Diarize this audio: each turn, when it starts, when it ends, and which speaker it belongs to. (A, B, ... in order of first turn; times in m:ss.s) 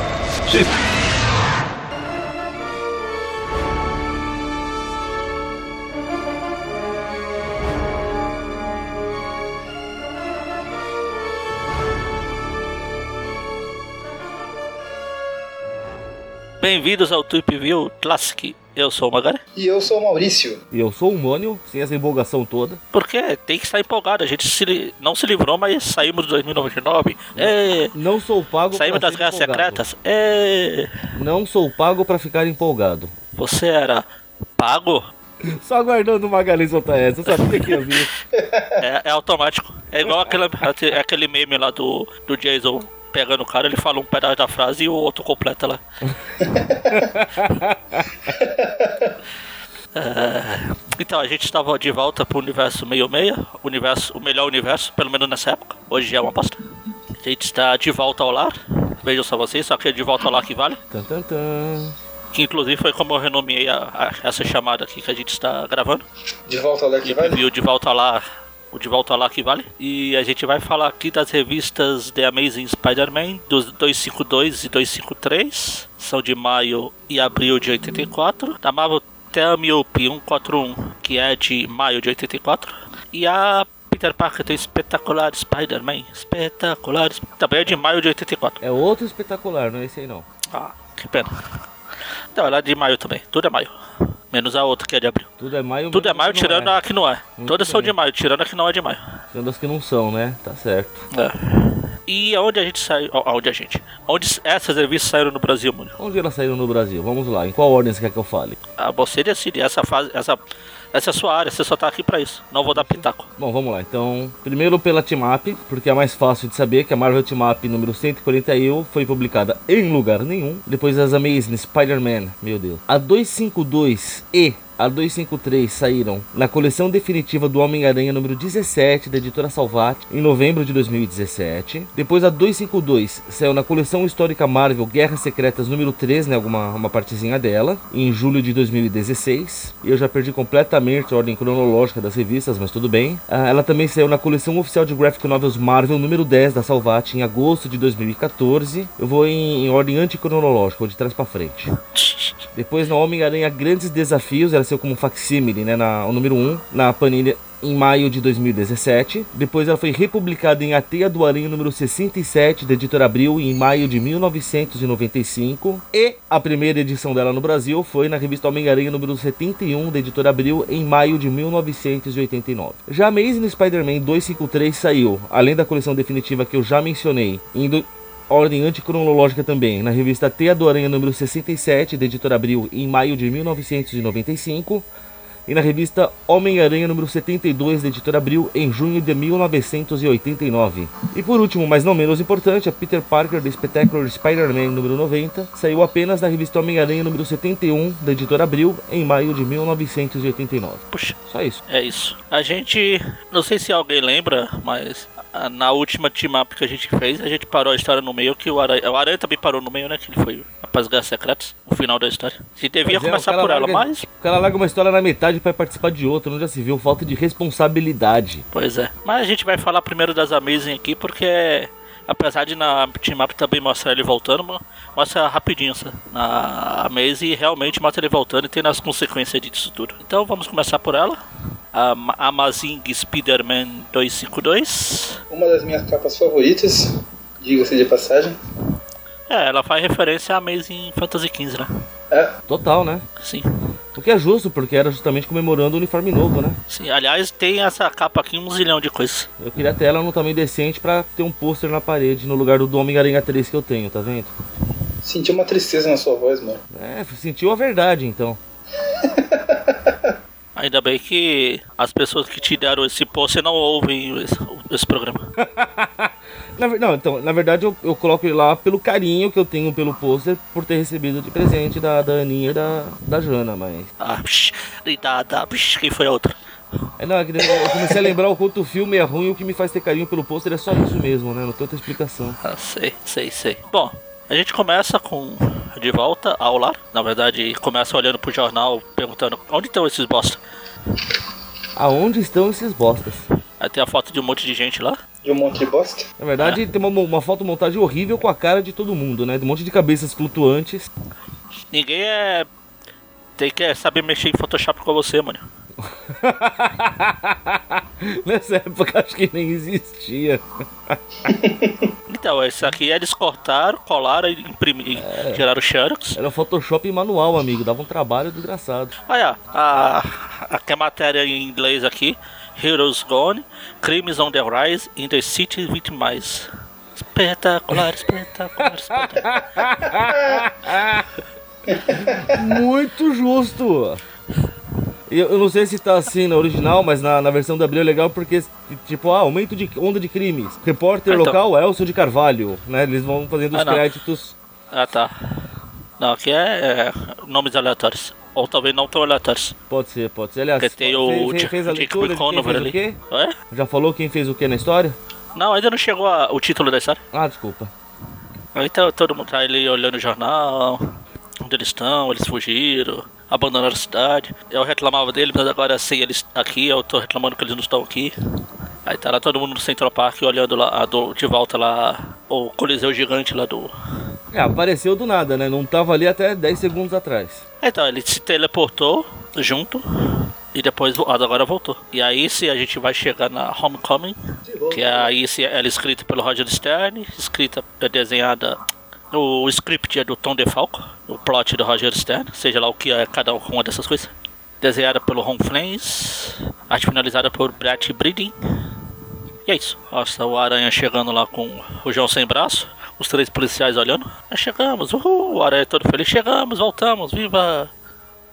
0:16.6-0:19.4 A
0:19.6-0:20.6 B
0:20.7-0:22.8 C
0:22.9-0:28.0 A
0:27.4-0:29.8 C
0:28.7-0:31.0 A
0:31.1-0:33.1 C
0:33.4-0:34.1 A
0:34.6-0:35.0 A
0:35.4-0:38.1 C
0:37.3-0:37.9 A
0:38.3-0:38.8 B
0:38.8-0:45.8 A
0:46.4-0:47.1 B
0:46.9-0:48.3 C
0:48.3-0:49.1 B
0:49.9-0:56.6 A
0:57.2-1:00.8 A
1:00.9-1:02.0 C
1:02.3-1:06.0 A
1:06.5-1:07.4 B
1:07.0-1:28.6 A
1:28.6-1:30.2 C
1:30.5-1:31.3 A
1:32.4-1:35.3 A
1:35.4-1:36.8 C
1:35.9-1:39.1 A
1:37.4-1:38.0 C
1:39.3-1:41.0 C
1:41.1-1:46.0 A
1:46.0-1:48.6 C
1:48.8-1:50.4 A
1:50.9-1:53.3 A
1:52.7-2:31.7 C
2:31.9-2:32.4 A
2:32.6-3:04.9 C
3:05.5-3:21.6 C
3:20.9-3:21.2 A
3:21.7-3:34.1 A
3:32.8-3:38.4 C
3:38.5-3:51.2 A
3:51.7-3:55.2 A
3:55.3-3:58.4 B
3:59.3-4:01.7 A
4:02.5-4:03.0 C
4:03.2-4:03.5 A
4:04.0-4:06.6 C
4:06.7-4:09.3 A
4:09.4-4:14.3 C
4:15.0-4:16.6 B
4:16.7-4:18.4 C
4:18.9-4:20.1 B
4:20.6-4:25.3 A
4:25.4-4:33.9 C
4:34.0-4:36.4 A
4:37.0-4:42.4 C
4:37.5-4:37.8 A
4:42.4-4:50.4 A
4:51.8-4:53.2 C
4:53.6-4:55.0 A
4:55.2-4:56.1 B
4:56.2-5:00.9 C
5:01.7-5:02.5 A
5:03.4-5:05.4 A
5:05.8-5:11.0 C
5:11.3-5:11.9 B
5:12.1-5:16.2 A
5:15.0-5:15.4 C
5:16.2-5:18.9 C
5:19.1-5:29.4 A
5:28.6-5:31.1 C
5:31.7-5:32.4 B
5:31.9-5:34.0 C
5:35.1-5:44.4 C
5:41.1-5:41.4 A
5:43.5-5:43.8 A
5:44.7-5:45.5 A
5:46.0-5:49.6 A
5:49.7-5:53.0 C
5:50.6-5:53.4 A
5:53.5-5:55.0 C
5:55.4-5:57.0 A
5:57.1-5:57.7 C
5:58.6-6:08.1 A
6:08.9-6:13.7 A
6:14.3-6:17.4 C
6:17.6-6:24.2 A
6:24.5-6:25.1 B
6:24.7-6:28.6 A
6:29.1-6:34.1 A
6:34.6-6:38.3 A
6:39.5-6:47.7 A